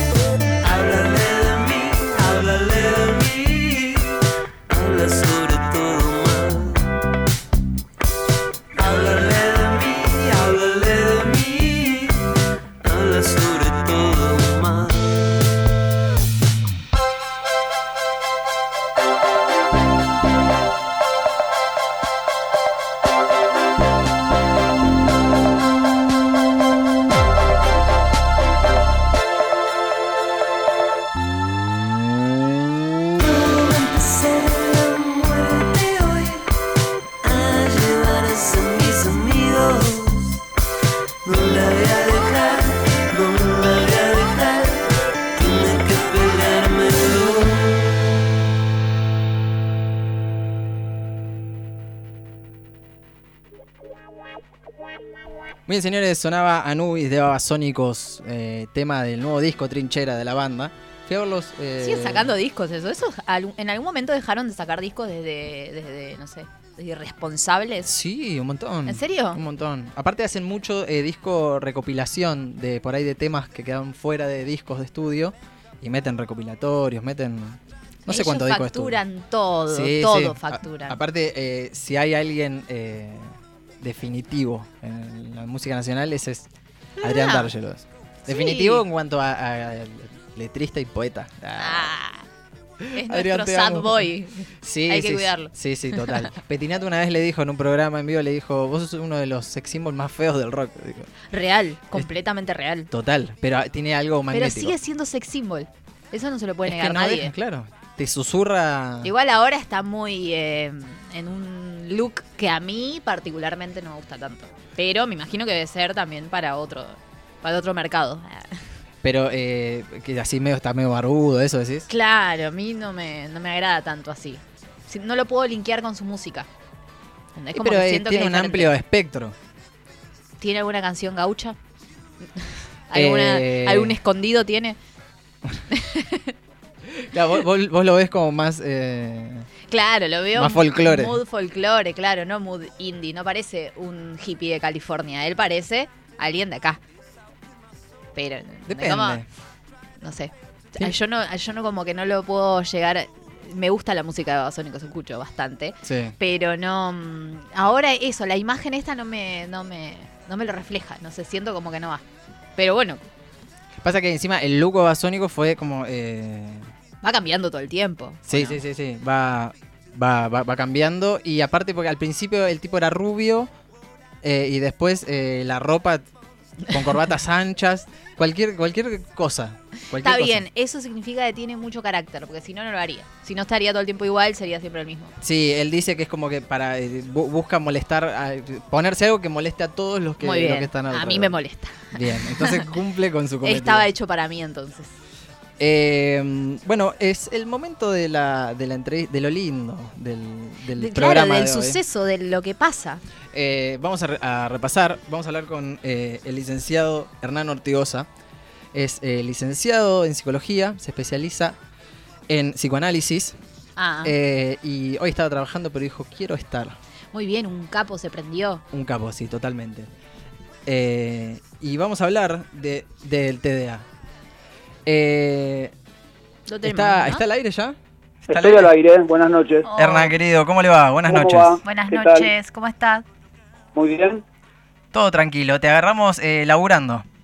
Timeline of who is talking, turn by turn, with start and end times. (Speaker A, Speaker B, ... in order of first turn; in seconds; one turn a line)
Speaker A: 0.6-6.9
Speaker A: 8.7-15.5
Speaker A: 33.1-36.5
Speaker A: 37.2-40.4
Speaker A: 41.2-47.9
Speaker B: 55.7-62.3
Speaker C: 61.8-67.9
Speaker B: 67.9-79.0
Speaker C: 68.9-69.4
Speaker C: 78.1-81.0
Speaker B: 79.7-86.5
Speaker C: 87.0-87.5
Speaker B: 87.0-91.9
Speaker C: 88.3-88.8
Speaker C: 91.6-92.3
Speaker B: 92.8-94.1
Speaker C: 92.9-96.3
Speaker B: 94.6-101.1
Speaker C: 101.3-102.9
Speaker B: 102.9-104.8
Speaker C: 104.3-107.3
Speaker B: 106.7-109.1
Speaker C: 109.0-118.5
Speaker B: 119.0-121.9
Speaker C: 121.9-126.5
Speaker C: 127.3-128.7
Speaker B: 127.5-129.3
Speaker C: 130.4-131.6
Speaker C: 132.4-134.8
Speaker B: 132.9-134.0
Speaker C: 135.7-136.3
Speaker B: 136.9-139.5
Speaker C: 139.7-146.8
Speaker B: 140.3-141.2
Speaker C: 148.2-149.2
Speaker B: 148.7-149.3
Speaker C: 150.0-162.0
Speaker B: 155.8-156.2
Speaker C: 162.6-163.1
Speaker B: 163.8-166.7
Speaker C: 167.0-168.6
Speaker B: 168.3-173.5
Speaker B: 174.2-176.1
Speaker C: 176.6-176.9
Speaker B: 176.7-180.4
Speaker C: 180.0-185.1
Speaker B: 185.2-191.4
Speaker C: 190.2-192.8
Speaker B: 191.9-193.9
Speaker C: 193.4-194.9
Speaker B: 195.6-201.8
Speaker C: 200.8-203.0
Speaker B: 203.3-208.1
Speaker B: 208.7-211.6
Speaker B: 212.3-213.4
Speaker C: 213.8-214.2
Speaker B: 214.0-216.8
Speaker C: 217.1-218.6
Speaker B: 218.7-219.9
Speaker B: 220.7-223.8
Speaker B: 224.9-225.7
Speaker C: 226.5-227.2
Speaker B: 226.7-227.8
Speaker B: 228.3-228.7
Speaker D: 228.3-229.7
Speaker C: 229.7-230.2
Speaker B: 229.8-231.6
Speaker D: 231.1-232.3
Speaker C: 231.6-233.1
Speaker D: 233.7-234.2
Speaker B: 234.9-237.1